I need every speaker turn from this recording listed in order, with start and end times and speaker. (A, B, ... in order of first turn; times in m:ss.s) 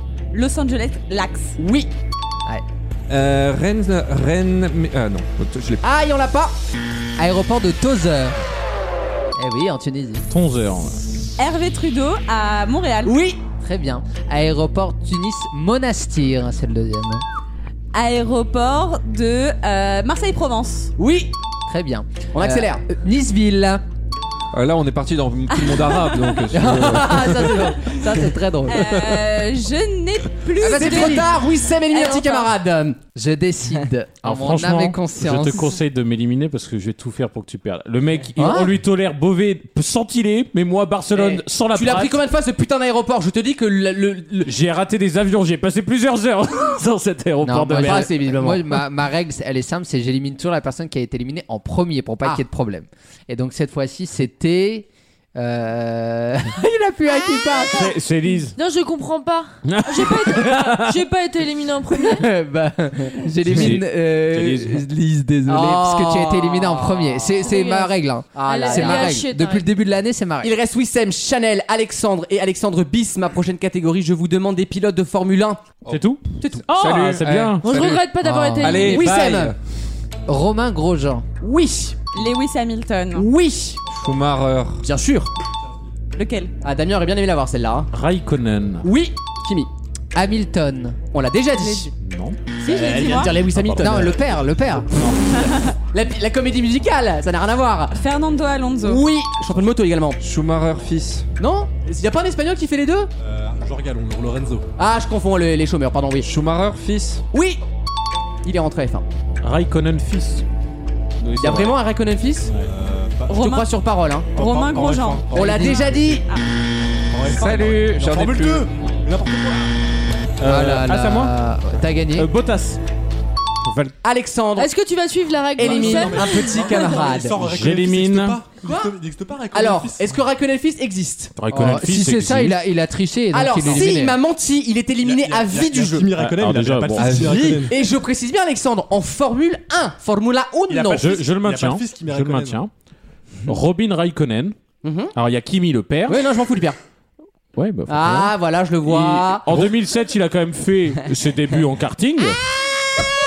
0:00.3-0:01.6 A
0:01.6-0:01.9 B
0:03.1-0:05.8 C
0:05.8-0:06.5 B
0:07.2-0:08.4 D
0:09.4-0:10.2 D
0:10.3-0:11.0 E
0:11.4-0:13.2 A
0:13.0-0:13.4 B
0:13.6-0:17.2 D
0:17.9-0:20.9 A
0:21.0-0:21.3 B
0:21.7-0:23.8 D
0:22.3-0:22.8 B
0:24.5-0:27.5 C
0:25.5-0:26.4 A
0:26.5-0:28.9 D
0:27.0-0:27.9 B
0:28.7-0:31.4 A
0:30.6-0:31.3 D
0:30.6-0:33.0 B
0:31.9-0:32.5 A
0:33.1-0:35.8 D
0:34.2-0:42.2 E
0:38.4-0:38.7 D
0:41.1-0:44.5 B
0:44.4-0:48.1 E
0:47.4-0:57.8 D
0:47.8-0:48.6 B
0:57.6-0:57.9 F
0:57.7-0:58.6 E
0:58.5-1:02.3 F
0:59.6-1:01.0 E
1:02.0-1:10.5 D
1:03.4-1:04.8 E
1:05.5-1:07.4 B
1:07.4-1:09.7 F
1:08.3-1:09.2 B
1:10.4-1:15.7 B
1:15.8-1:19.6 C
1:15.9-1:17.7 E
1:17.6-1:19.0 F
1:18.2-1:19.0 D
1:18.8-1:19.5 B
1:20.3-1:21.2 D
1:21.4-1:22.2 B
1:22.1-1:23.3 A
1:23.1-1:23.8 B
1:23.9-1:24.8 C
1:24.8-1:25.3 B
1:26.1-1:26.5 A
1:26.6-1:27.9 B
1:27.9-1:28.9 E
1:28.8-1:29.7 B
1:30.1-1:31.0 D
1:31.1-1:31.9 B
1:31.6-1:31.9 A
1:32.0-1:32.4 E
1:32.6-1:33.4 A
1:32.6-1:34.2 B
1:33.1-1:34.1 E
1:33.8-1:34.9 D
1:35.0-1:35.4 E
1:35.3-1:35.7 A
1:35.9-1:38.0 B
1:38.0-1:39.0 A
1:38.8-1:40.2 B
1:40.2-1:41.3 C
1:41.4-1:43.1 B
1:43.2-1:44.7 G
1:44.8-1:46.3 B
1:46.2-1:47.2 C
1:47.3-1:47.6 B
1:48.4-1:49.0 B
1:49.4-1:50.4 E
1:51.2-1:51.8 E
1:51.4-1:52.5 B
1:52.6-1:53.4 G
1:53.3-1:53.7 A
1:53.3-1:54.3 B
1:54.3-1:56.2 G
1:54.4-1:56.4 A
1:55.3-1:56.2 B
1:55.3-1:55.9 D
1:57.1-1:59.7 G
1:57.2-1:58.7 C
2:00.4-2:01.3 E
2:00.4-2:02.3 D
2:02.1-2:02.8 E
2:03.6-2:03.9 E
2:04.0-2:04.7 B
2:04.6-2:07.0 F
2:05.6-2:07.4 B
2:05.6-2:10.1 G
2:07.4-2:08.4 E
2:08.6-2:09.0 B
2:09.5-2:11.3 B
2:11.4-2:12.6 E
2:11.5-2:14.2 D
2:13.3-2:16.1 B
2:15.0-2:17.8 G
2:16.2-2:17.3 E
2:17.0-2:21.2 B
2:17.0-2:17.6 C
2:20.7-2:22.6 G
2:20.9-2:22.7 E
2:23.5-2:24.6 E
2:24.8-2:25.1 B
2:25.1-2:26.2 E
2:26.1-2:26.8 B
2:27.6-2:32.4 E
2:27.9-2:29.6 B